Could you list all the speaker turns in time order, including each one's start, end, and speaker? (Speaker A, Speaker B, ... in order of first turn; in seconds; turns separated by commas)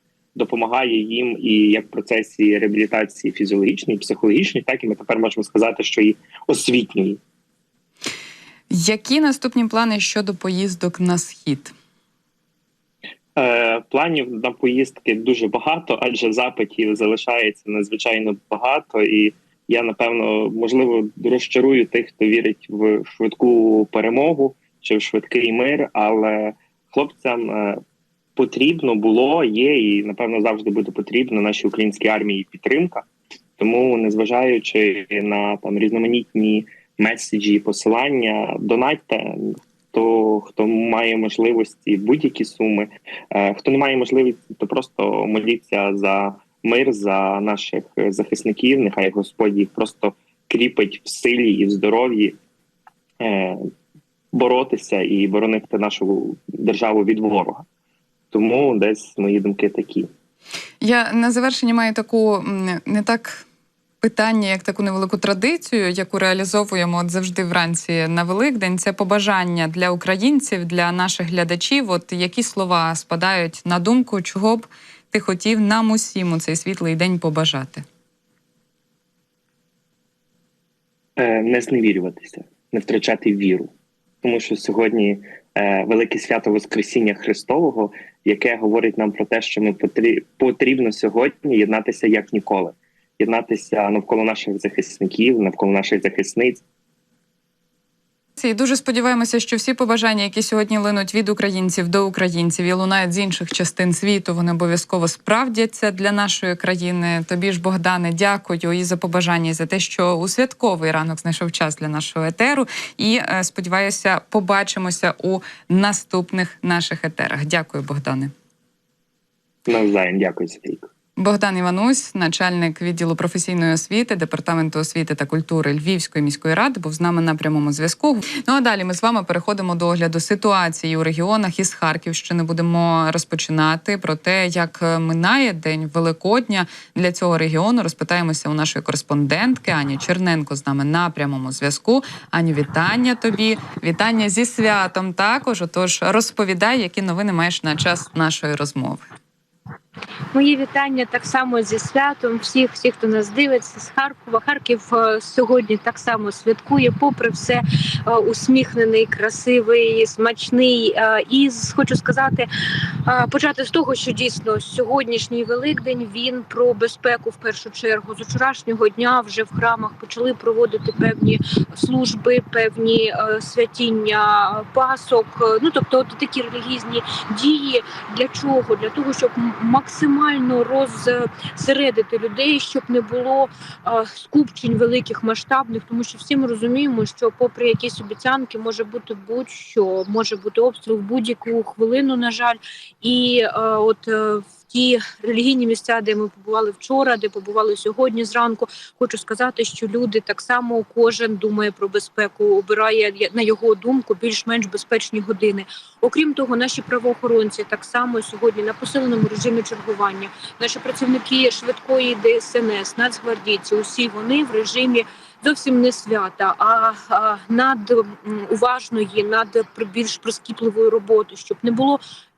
Speaker A: 0.3-7.2, Speaker B: 8.7-11.7, Speaker A: 13.4-27.8, Speaker A: 28.4-33.0, Speaker A: 33.6-52.4, Speaker A: 53.2-53.6, Speaker A: 54.3-57.6, Speaker A: 58.3-60.1, Speaker B: 60.8-63.4, Speaker B: 64.0-77.8, Speaker A: 81.2-83.7, Speaker A: 84.2-96.6, Speaker B: 98.4-118.3, Speaker A: 119.7-120.8, Speaker B: 121.2-149.1, Speaker C: 150.3-222.0